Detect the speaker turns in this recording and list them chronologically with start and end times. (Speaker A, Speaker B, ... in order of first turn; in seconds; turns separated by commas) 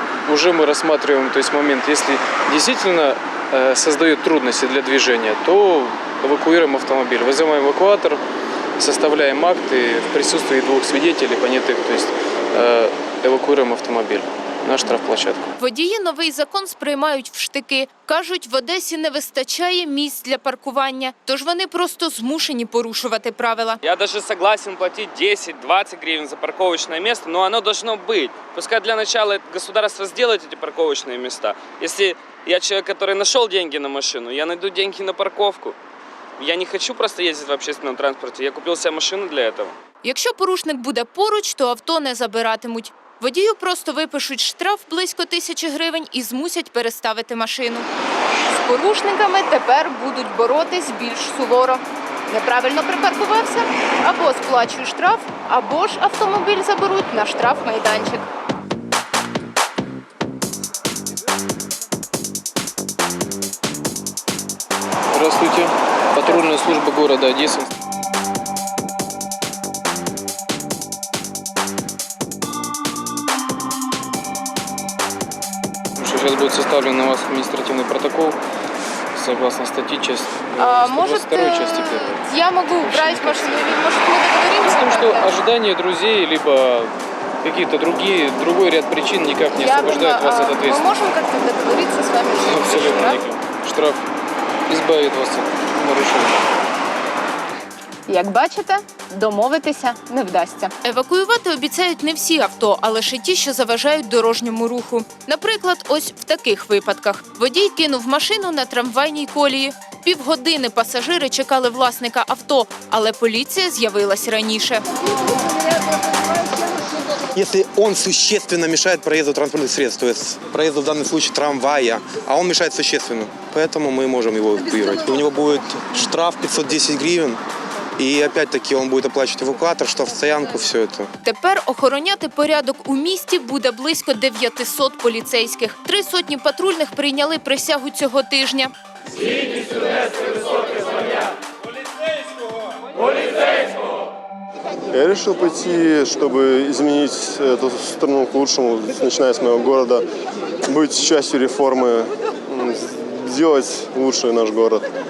Speaker A: 0.2-8.2, Speaker A: 8.8-15.5, Speaker B: 15.6-23.8, Speaker C: 23.8-35.8, Speaker C: 36.4-39.8, Speaker B: 40.0-47.9, Speaker B: 48.5-58.2, Speaker A: 65.1-67.7, Speaker A: 76.0-78.4, Speaker A: 79.1-82.2, Speaker B: 80.6-85.4, Speaker A: 82.8-83.7, Speaker A: 84.6-90.9, Speaker B: 89.5-93.2, Speaker A: 92.3-94.0, Speaker A: 94.7-96.4, Speaker B: 98.1-115.0, Speaker D: 117.3-127.4, Speaker D: 128.0-131.1, Speaker B: 131.2-138.7, Speaker E: 144.9-150.0, Speaker E: 150.6-154.8